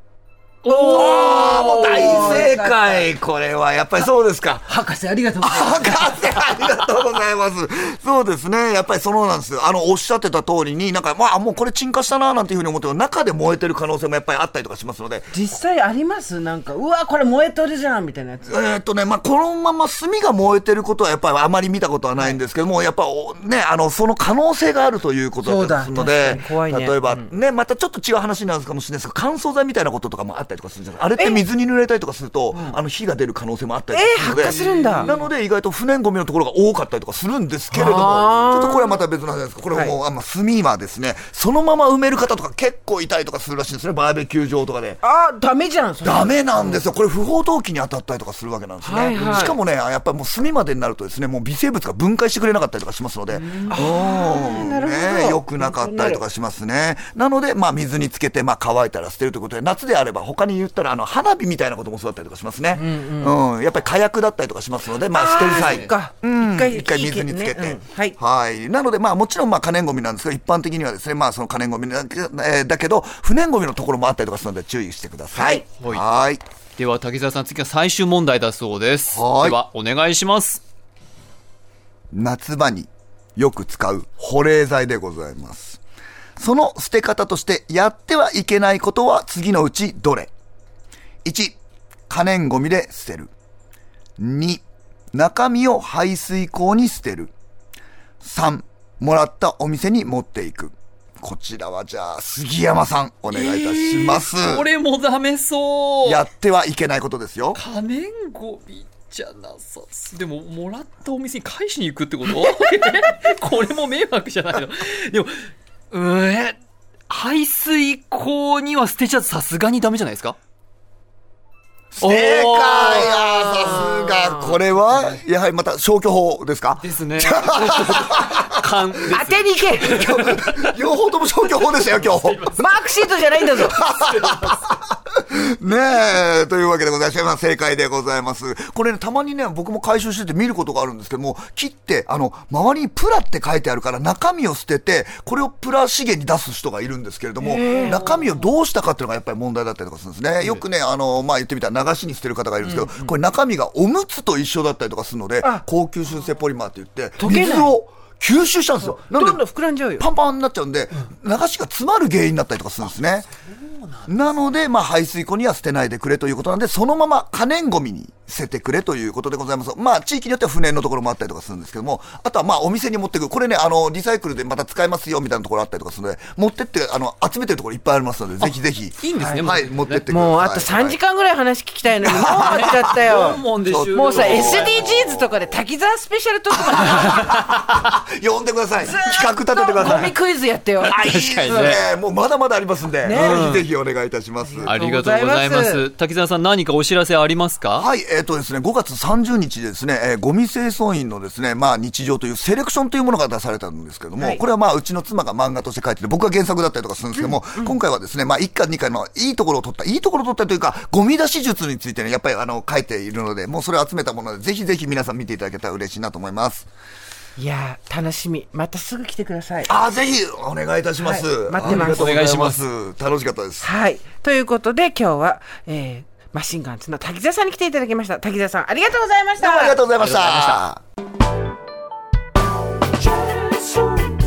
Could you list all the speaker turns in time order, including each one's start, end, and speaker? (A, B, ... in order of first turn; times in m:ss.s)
0:00.6-0:02.4 A
0:00.7-0:03.1 B
0:00.7-0:04.7 C
0:04.6-0:06.2 B
0:05.4-0:15.3 C
0:15.3-0:18.5 B
0:18.4-0:45.0 C
0:25.4-0:27.3 B
0:31.2-0:31.4 B
0:32.5-0:32.8 B
0:33.9-0:35.1 B
0:34.2-0:35.3 A
0:37.7-0:39.0 B
0:39.7-0:40.0 B
0:45.0-0:46.8 B
0:46.0-1:16.4 C
0:48.8-0:49.6 B
0:49.1-0:49.5 A
0:53.5-0:53.7 A
0:53.7-0:56.2 B
1:02.7-1:03.3 B
1:05.1-1:08.2 B
1:05.5-1:05.9 A
1:15.3-1:15.6 B
1:15.8-1:16.0 A
1:16.8-1:20.6 A
1:19.1-1:19.6 C
1:22.1-1:25.8 C
1:26.4-1:30.3 C
1:31.2-1:31.6 C
1:32.1-1:33.3 C
1:34.2-1:37.3 C
1:38.2-1:44.6 C
1:43.3-1:46.2 A
1:46.0-1:47.6 C
1:47.5-1:56.6 A
1:57.1-2:00.4 A
2:01.9-2:09.1 C
2:02.0-2:03.3 A
2:03.1-2:04.5 B
2:04.9-2:05.2 A
2:06.8-2:10.7 A
2:09.1-2:10.2 B
2:09.8-2:12.5 C
2:11.5-2:14.6 A
2:12.6-2:13.8 B
2:13.6-2:39.4 C
2:27.4-2:28.1 B
2:27.7-2:28.3 A
2:32.6-2:33.2 B
2:37.2-2:37.7 B
2:38.8-2:40.0 B
2:40.0-2:43.3 C
2:43.4-2:44.2 A
2:44.1-3:01.0 C
2:59.0-3:00.1 A
2:59.2-2:59.5 B
3:00.1-3:07.3 B
3:02.0-3:05.3 C
3:02.2-3:04.9 A
3:06.5-3:10.1 C
3:06.9-3:07.7 A
3:08.8-3:11.8 B
3:09.8-3:10.1 A
3:10.8-3:11.8 A
3:10.9-3:14.8 C
3:13.0-3:13.5 B
3:13.1-3:13.7 A
3:14.4-3:15.8 B
3:14.6-3:17.9 A
3:17.7-3:36.7 C
3:37.4-3:39.7 B
3:39.6-3:43.6 C
3:41.0-3:42.4 B
3:41.6-3:42.6 A
3:43.6-3:49.8 B
3:49.4-3:50.8 C
3:50.0-3:50.6 A